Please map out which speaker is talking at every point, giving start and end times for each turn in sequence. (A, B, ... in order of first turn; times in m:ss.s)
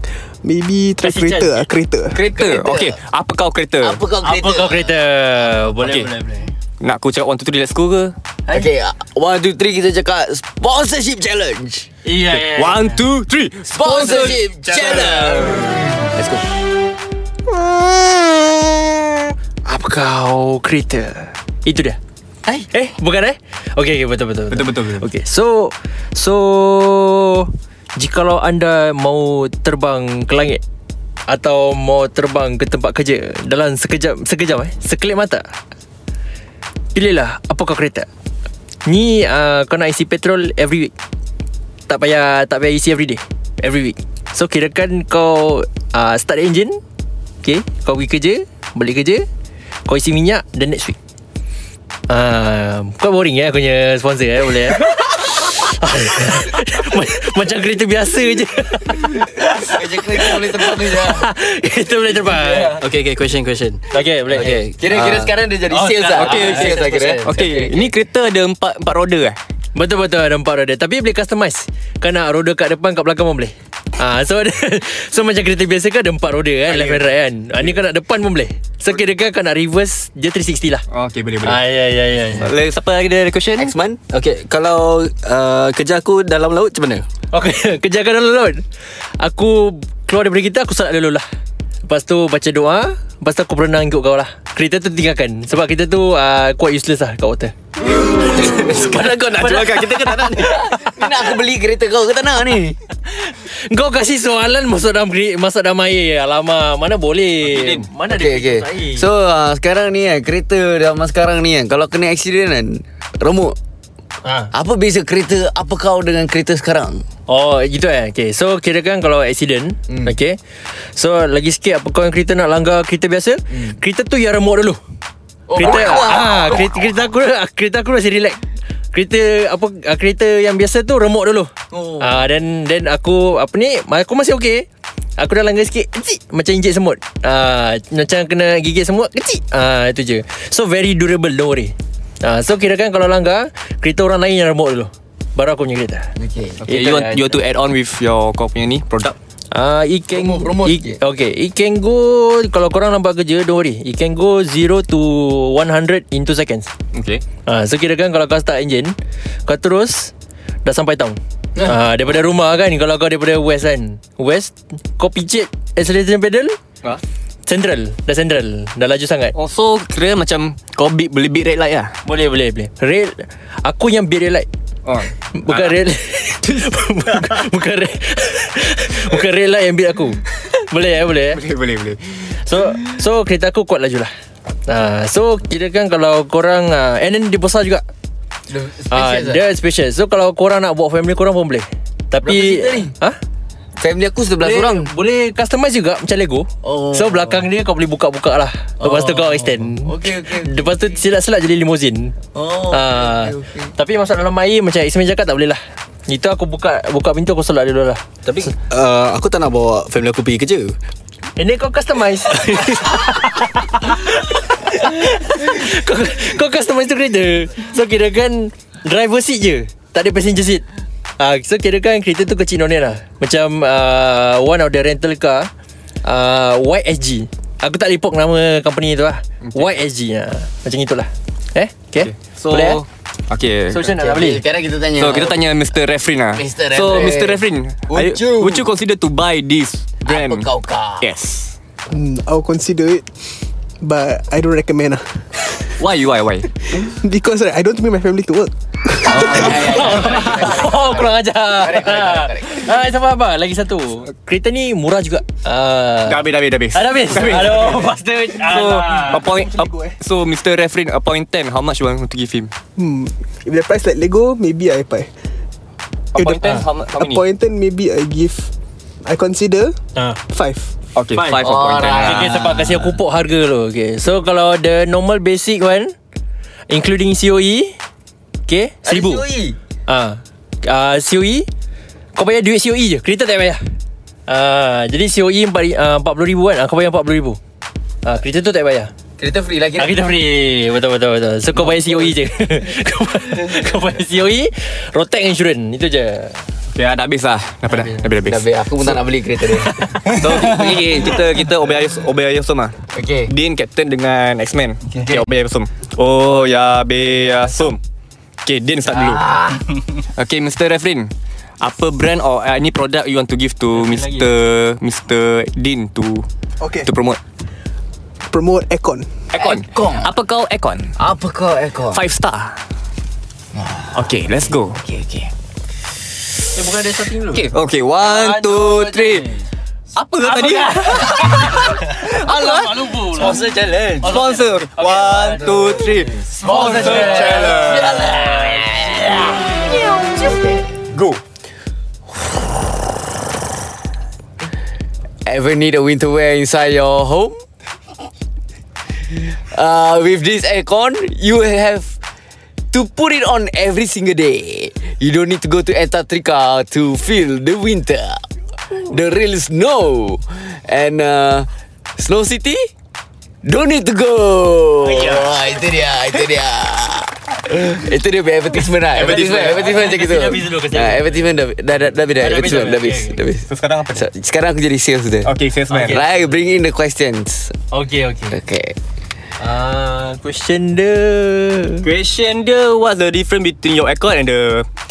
0:00.4-0:02.2 A
0:01.0-0:01.7 B
0:02.1-0:03.0 C
0:02.2-0:04.0 D
0:03.8-0:04.9 C
0:04.2-0:06.5 B
0:05.8-0:06.1 D
0:06.8-0:08.1 D
0:08.5-0:11.9 C
0:12.0-0:13.0 B
0:12.3-0:14.4 D
0:13.7-0:16.5 C
0:13.8-0:15.8 E
0:19.7-0:22.0 B
0:22.7-0:30.6 B
0:24.5-0:25.0 D
0:31.3-0:35.5 B
0:37.0-0:38.1 B
0:38.8-0:40.9 B
0:41.9-0:46.8 B
0:47.4-0:49.3 B
0:49.9-0:51.0 B
0:52.1-1:02.8 B
0:59.5-1:01.3 C
1:02.3-1:02.7 C
1:02.6-1:05.4 E
1:03.9-1:04.6 B
1:04.4-1:07.9 C
1:05.7-1:07.2 B
1:06.1-1:09.4 D
1:09.8-1:20.8 B
1:16.7-1:17.0 D
1:20.9-1:21.6 D
1:21.4-1:22.5 B
1:22.4-1:23.7 D
1:23.6-1:24.0 C
1:24.1-1:27.0 E
1:27.3-1:28.6 B
1:29.2-1:31.2 B
1:31.8-1:37.5 B
1:38.0-1:40.9 B
1:38.4-1:40.6 E
1:39.4-1:40.5 D
1:40.4-1:42.8 C
1:43.1-1:49.1 B
1:47.4-1:47.9 D
1:48.1-1:53.6 C
1:54.2-1:54.5 B
1:54.5-1:57.0 C
1:57.3-2:00.4 B
1:59.9-2:00.2 C
2:01.0-2:04.8 B
2:05.5-2:06.9 C
2:05.6-2:08.4 B
2:08.9-2:14.7 B
2:11.7-2:12.2 C
2:15.2-2:26.1 B
2:26.2-2:27.0 C
2:26.6-2:29.2 D
2:26.7-2:27.3 B
2:29.5-2:36.7 B
2:30.1-2:31.0 C
2:36.9-2:37.2 D
2:37.4-2:40.1 B
2:40.6-2:46.6 B
2:47.5-2:49.4 B
2:49.4-2:51.9 D
2:52.0-2:54.5 B
2:54.8-2:55.8 D
2:55.3-3:01.4 B
2:57.1-2:57.4 D
3:01.3-3:02.3 D
3:02.4-3:04.1 B
3:04.7-3:07.8 B
3:08.5-3:09.4 C
3:08.9-3:13.2 B
3:12.2-3:12.9 C
3:13.8-3:14.9 C
3:14.4-3:22.2 B
3:16.6-3:17.4 C
3:18.8-3:21.0 C
3:22.3-3:23.7 C
3:22.7-3:28.0 B
3:28.2-3:30.8 E
3:31.4-3:40.6 B
3:41.2-3:45.5 B
3:46.0-3:52.8 B
3:49.4-3:49.8 D
3:52.0-3:53.8 D
3:53.7-3:54.4 B
3:53.8-3:55.4 C
3:55.0-4:00.5 D
3:56.4-3:58.7 C
4:00.0-4:01.1 C
4:01.0-4:01.5 D
4:01.9-4:03.1 A
4:03.8-4:05.1 A
4:05.8-4:06.5 D
4:06.7-4:09.7 A
4:09.1-4:12.7 C
4:09.1-4:19.3 B
4:16.1-4:22.5 D
4:19.0-4:20.0 A
4:22.8-4:25.1 A
4:26.1-4:27.2 D
4:26.2-4:28.5 A
4:29.0-4:29.8 A
4:30.3-4:30.7 A
4:31.0-4:32.4 D
4:31.1-4:35.9 B
4:31.4-4:33.0 C
4:36.7-4:37.8 B
4:38.5-4:39.2 B
4:38.8-4:39.6 C
4:39.9-4:41.5 B
4:42.2-4:43.6 B
4:44.3-4:47.4 B
4:48.0-4:48.9 B
4:49.2-4:50.0 C
4:49.8-4:56.4 B
4:56.7-4:58.5 D
4:57.7-4:58.1 B
4:58.2-5:01.0 C
4:59.9-5:00.2 B
5:00.1-5:02.8 D
5:03.0-5:03.3 C
5:03.3-5:07.8 D
5:04.9-5:05.2 C
5:06.6-5:07.6 B
5:08.4-5:09.2 D
5:08.9-5:09.7 C
5:10.2-5:16.3 D
5:13.8-5:14.3 B
5:16.6-5:16.9 A
5:16.8-5:17.2 D
5:18.3-5:19.2 A
5:19.3-5:21.0 D
5:19.4-5:20.1 C
5:21.0-5:22.0 C
5:21.9-5:22.6 D
5:23.5-5:24.0 C
5:24.0-5:24.8 D
5:24.8-5:25.3 C
5:26.5-5:29.4 B
5:27.3-5:29.3 D
5:30.0-5:33.3 D
5:30.2-5:39.4 B
5:33.1-5:34.2 E
5:34.0-5:38.3 D
5:36.3-5:38.8 C
5:40.1-5:40.8 C
5:40.9-5:41.2 D
5:45.2-5:47.4 C
5:49.1-5:52.0 C
5:52.7-5:58.2 C
5:58.9-6:02.7 C
6:03.4-6:15.3 C
6:04.8-6:05.4 D
6:09.0-6:11.4 B
6:09.0-6:09.5 D
6:12.2-6:13.2 B
6:13.5-6:14.1 D
6:15.2-6:16.0 D
6:15.7-6:16.4 B
6:15.8-6:17.6 C
6:17.7-6:18.4 B
6:18.3-6:18.8 C
6:19.4-6:21.9 B
6:21.8-6:24.7 D